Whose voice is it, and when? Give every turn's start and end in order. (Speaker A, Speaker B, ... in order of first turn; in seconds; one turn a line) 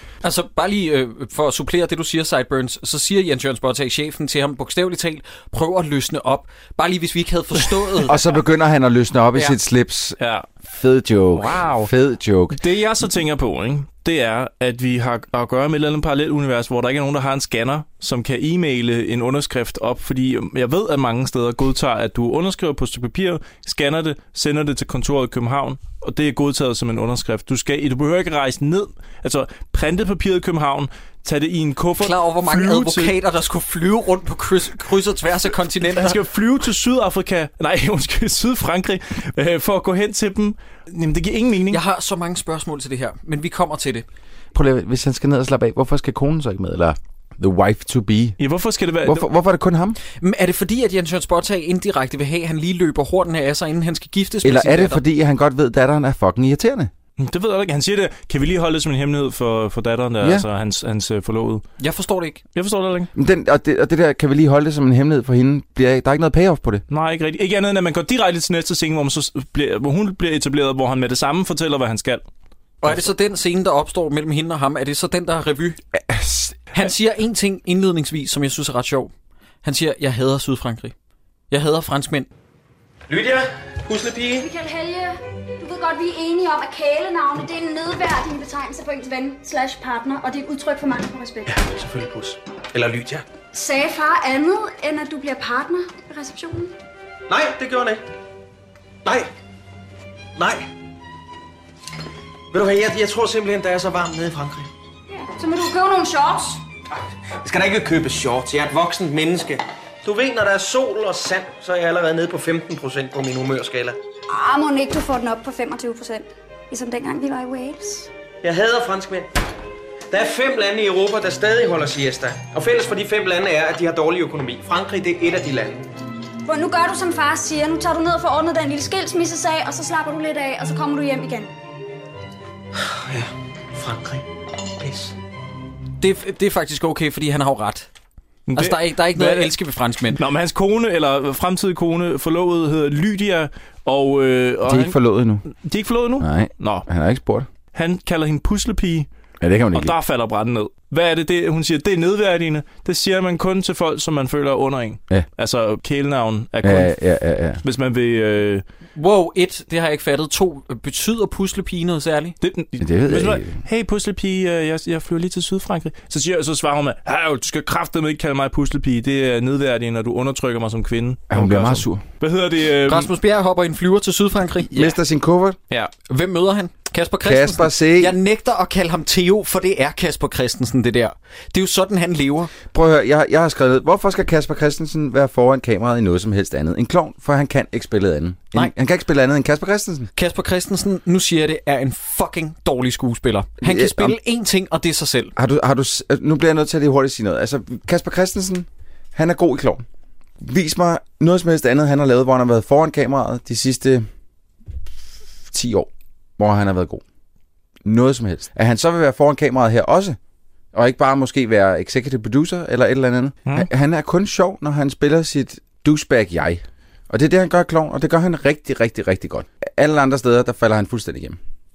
Speaker A: 0.2-8.1
Speaker B: 8.1-12.6
Speaker C: 10.2-10.5
Speaker C: 11.3-11.9
Speaker C: 12.5-33.1
Speaker A: 32.0-36.2
Speaker C: 35.9-41.8
Speaker A: 41.7-44.0
Speaker B: 44.5-48.4
Speaker C: 48.4-49.3
Speaker B: 49.0-50.0
Speaker A: 50.2-55.0
Speaker B: 54.4-56.9
Speaker C: 57.2-61.6
Speaker A: 61.8-62.4
Speaker C: 62.5-63.1
Speaker B: 63.1-66.8
Speaker C: 66.9-72.2
Speaker A: 72.8-75.8
Speaker B: 76.0-76.6
Speaker A: 76.7-79.1
Speaker A: 79.6-80.9
Speaker A: 81.5-82.3
Speaker D: 83.1-84.5
Speaker E: 84.4-91.5
Speaker D: 91.5-93.2
Speaker E: 93.5-96.7
Speaker D: 97.3-98.0
Speaker D: 100.4-100.7
Speaker D: 102.5-104.7
Speaker E: 105.1-106.6
Speaker D: 107.4-114.0
Speaker E: 114.3-118.1
Speaker D: 118.4-119.3
Speaker D: 120.1-125.9
Speaker E: 126.5-131.5
Speaker D: 132.8-134.2
Speaker D: 134.8-135.2
Speaker A: 136.0-137.9
Speaker C: 138.5-139.6
Speaker A: 138.5-140.2
Speaker C: 140.1-145.0
Speaker B: 144.7-145.4
Speaker C: 145.6-146.9
Speaker B: 146.2-147.5
Speaker C: 147.7-149.1
Speaker B: 149.4-149.9
Speaker C: 149.7-156.9
Speaker B: 156.6-157.6
Speaker C: 157.6-158.6
Speaker A: 159.0-162.4
Speaker C: 162.4-173.1
Speaker B: 162.8-163.6
Speaker B: 171.3-172.0
Speaker A: 172.9-174.9
Speaker B: 174.7-175.6
Speaker A: 175.7-182.5
Speaker B: 177.2-178.2
Speaker B: 182.7-190.1
Speaker A: 190.2-195.3
Speaker B: 193.6-194.2
Speaker B: 195.4-199.8
Speaker B: 200.4-204.1
Speaker B: 205.5-207.0
Speaker B: 207.8-210.2
Speaker B: 210.7-221.4